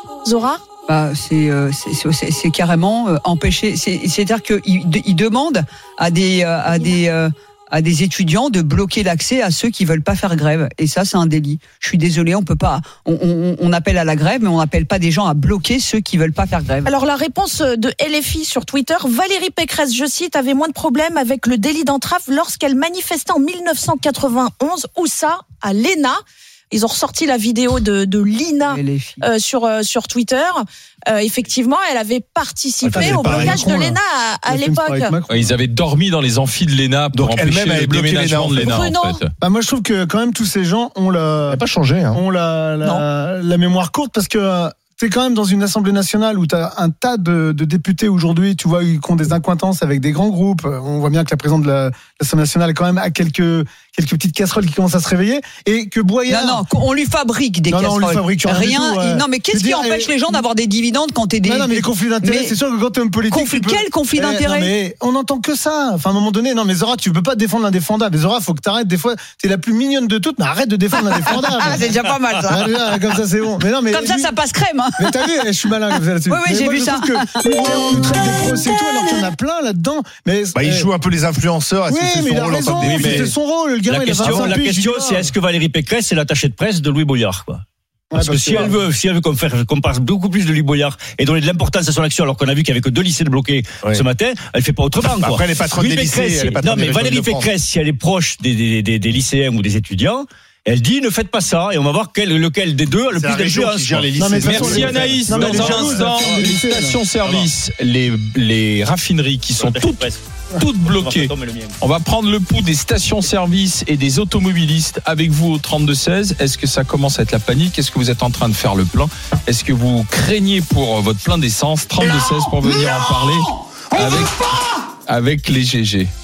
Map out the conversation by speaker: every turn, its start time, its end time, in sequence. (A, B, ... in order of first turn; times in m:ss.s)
0:00.2-0:00.6 A
0:00.9-0:16.9 B
0:16.9-0:26.2 A
0:26.7-0:35.2 A
0:28.7-0:29.2 B
0:32.8-0:33.7 C
0:33.0-0:35.6 D
0:35.3-0:39.3 E
0:37.1-0:38.8 C
0:38.6-0:39.2 A
0:39.4-0:41.6 D
0:41.5-0:42.2 C
0:42.1-0:56.6 D
0:56.3-1:02.6 B
0:57.7-1:00.4 D
1:01.4-1:11.9 D
1:03.3-1:04.7 B
1:11.3-1:12.6 B
1:12.5-1:14.3 D
1:13.9-1:15.2 B
1:15.0-1:20.9 D
1:16.3-1:19.2 B
1:20.6-1:23.3 C
1:21.9-1:25.3 D
1:22.8-1:23.3 F
1:23.9-1:27.6 F
1:24.2-1:24.6 C
1:28.1-1:28.8 D
1:28.1-1:44.1 F
1:35.2-1:37.5 C
1:43.1-1:46.0 C
1:44.2-1:47.0 D
1:44.4-1:50.0 E
1:44.6-1:45.1 F
1:45.6-1:46.4 F
1:47.2-1:47.5 F
1:49.6-1:50.2 F
1:50.6-2:04.4 E
1:50.8-1:51.8 F
2:05.1-2:06.1 E